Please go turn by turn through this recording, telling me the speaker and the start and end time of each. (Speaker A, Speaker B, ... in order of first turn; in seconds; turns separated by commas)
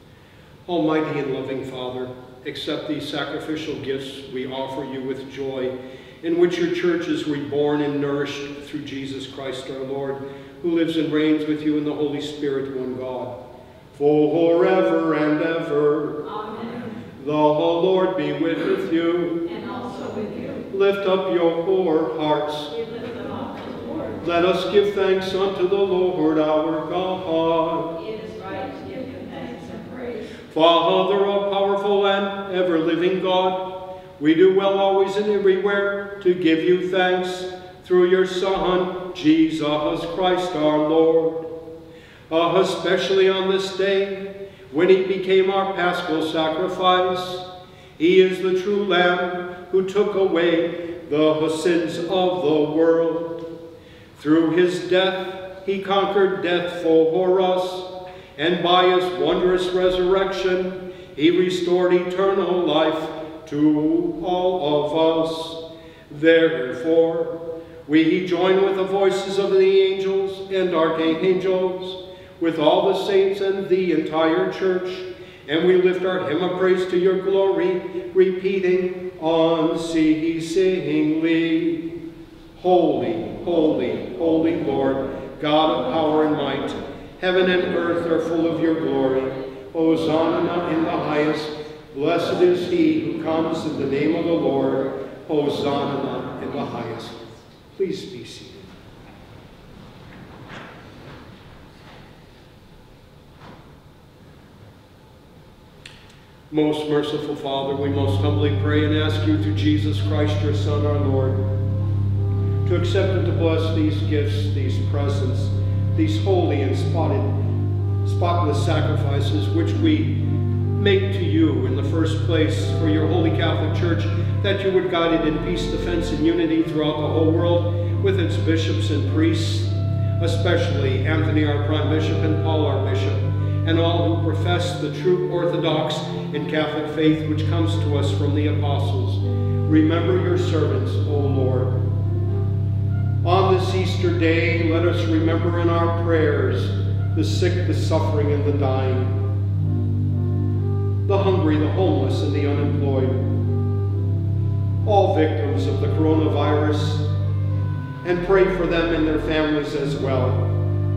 Speaker A: 0.7-13.3, Speaker A: 13.9-16.2, Speaker B: 16.2-17.0, Speaker A: 17.2-19.4, Speaker B: 19.4-20.6, Speaker A: 20.7-22.7, Speaker B: 22.7-24.2, Speaker A: 24.2-27.9, Speaker B: 27.9-30.3, Speaker A: 30.5-41.5, Speaker A: 42.3-53.4, Speaker A: 54.1-82.0, Speaker A: 82.5-98.7, Speaker A: 106.5-111.4, Speaker A: 112.6-117.3, Speaker A: 118.0-141.8, Speaker A: 143.2-149.2, Speaker A: 151.1-153.3, Speaker A: 154.8-157.0, Speaker A: 158.0-160.6